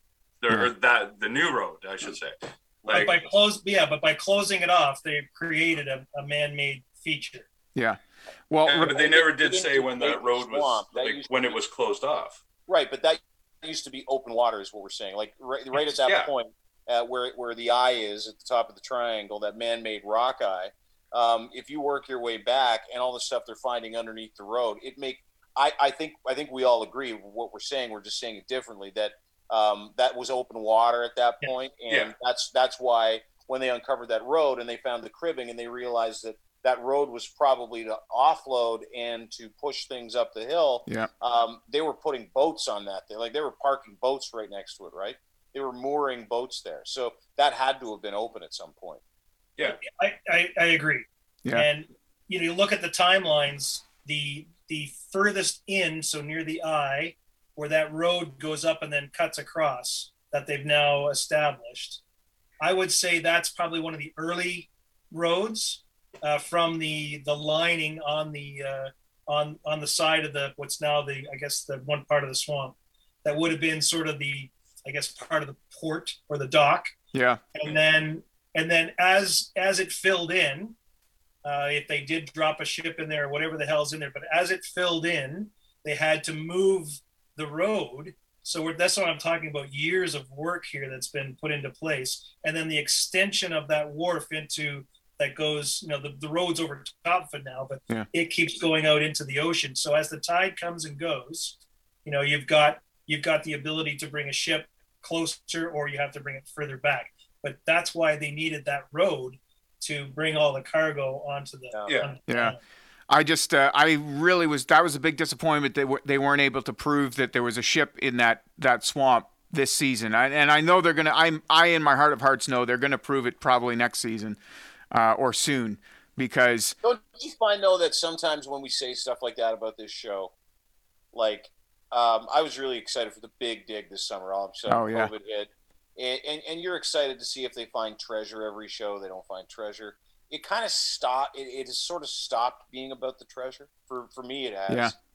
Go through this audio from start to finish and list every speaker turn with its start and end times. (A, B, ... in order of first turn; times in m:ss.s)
0:00.4-0:03.2 A
0:02.9-0:07.4 B
0:08.5-0:09.0 C
0:08.6-0:12.4 A
0:08.8-0:11.6 D
0:12.7-0:49.0 D
0:15.7-0:16.3 A
0:49.6-1:02.0 B
1:02.6-1:16.9 B
1:17.1-1:17.4 C
1:17.5-1:20.8 B
1:21.4-1:52.6 B
1:51.9-1:52.1 A
1:52.3-1:52.6 C
1:53.1-2:04.4 C
2:04.9-2:06.8 C
2:06.8-2:10.3 D
2:11.1-2:24.9 D
2:14.7-2:15.1 C
2:24.7-2:24.9 C